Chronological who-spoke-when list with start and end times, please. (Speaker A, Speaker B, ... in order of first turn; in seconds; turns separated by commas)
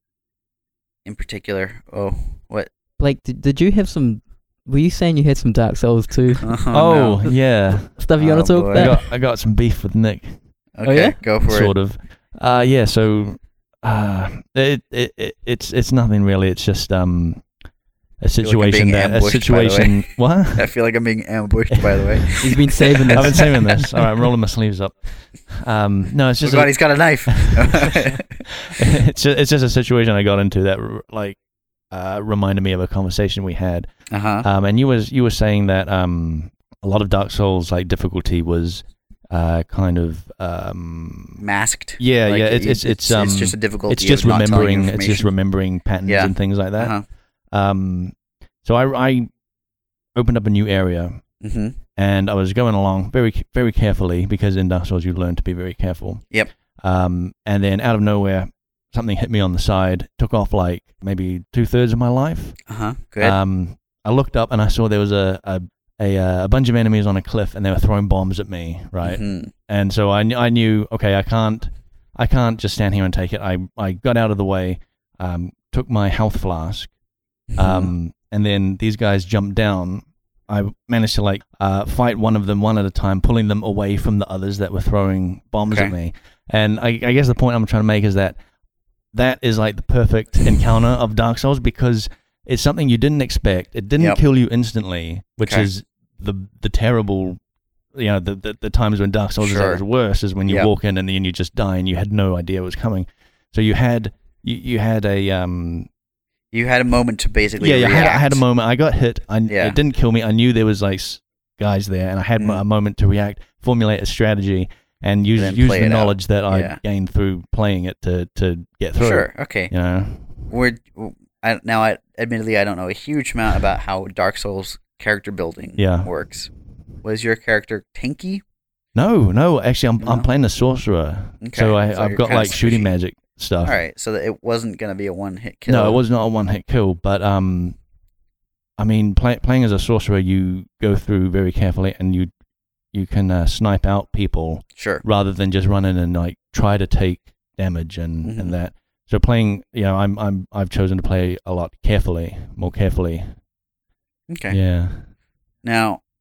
Speaker A: 1.0-2.7, Speaker B: 3.0-6.5, Speaker A: 6.4-7.3, Speaker C: 6.7-8.0, Speaker B: 7.9-9.1, Speaker A: 8.2-9.0, Speaker C: 8.7-10.4, Speaker A: 10.8-11.7, Speaker B: 10.8-11.2, Speaker C: 11.5-17.5, Speaker C: 18.2-20.7, Speaker A: 18.4-23.4, Speaker C: 21.7-22.3, Speaker B: 22.4-23.6, Speaker C: 23.1-26.7, Speaker A: 26.4-28.4, Speaker C: 27.3-31.4, Speaker C: 31.9-33.9, Speaker A: 34.1-34.5, Speaker C: 34.4-41.4, Speaker A: 41.4-45.3, Speaker C: 42.0-47.0, Speaker A: 46.0-47.0, Speaker C: 47.5-49.3, Speaker C: 50.1-51.2, Speaker A: 51.4-51.8, Speaker C: 51.9-56.2, Speaker C: 56.8-62.6, Speaker A: 62.7-63.4, Speaker C: 63.2-76.9, Speaker A: 69.0-69.5, Speaker A: 77.5-77.9, Speaker C: 77.6-88.4, Speaker A: 85.7-85.9, Speaker C: 89.1-97.4, Speaker C: 97.9-105.9, Speaker A: 99.4-99.8, Speaker A: 106.5-108.4, Speaker C: 107.6-120.4, Speaker A: 109.5-109.8, Speaker A: 115.3-116.8, Speaker A: 119.0-119.7, Speaker A: 120.5-126.5, Speaker C: 125.8-126.1, Speaker A: 127.0-128.4, Speaker C: 128.9-133.8, Speaker A: 130.0-130.3, Speaker A: 131.4-132.9, Speaker A: 133.6-136.0, Speaker C: 135.7-137.8, Speaker C: 138.8-142.3, Speaker C: 142.9-153.3, Speaker A: 144.8-145.0, Speaker A: 148.2-148.5, Speaker A: 154.3-154.6, Speaker C: 154.5-155.1, Speaker A: 155.6-156.0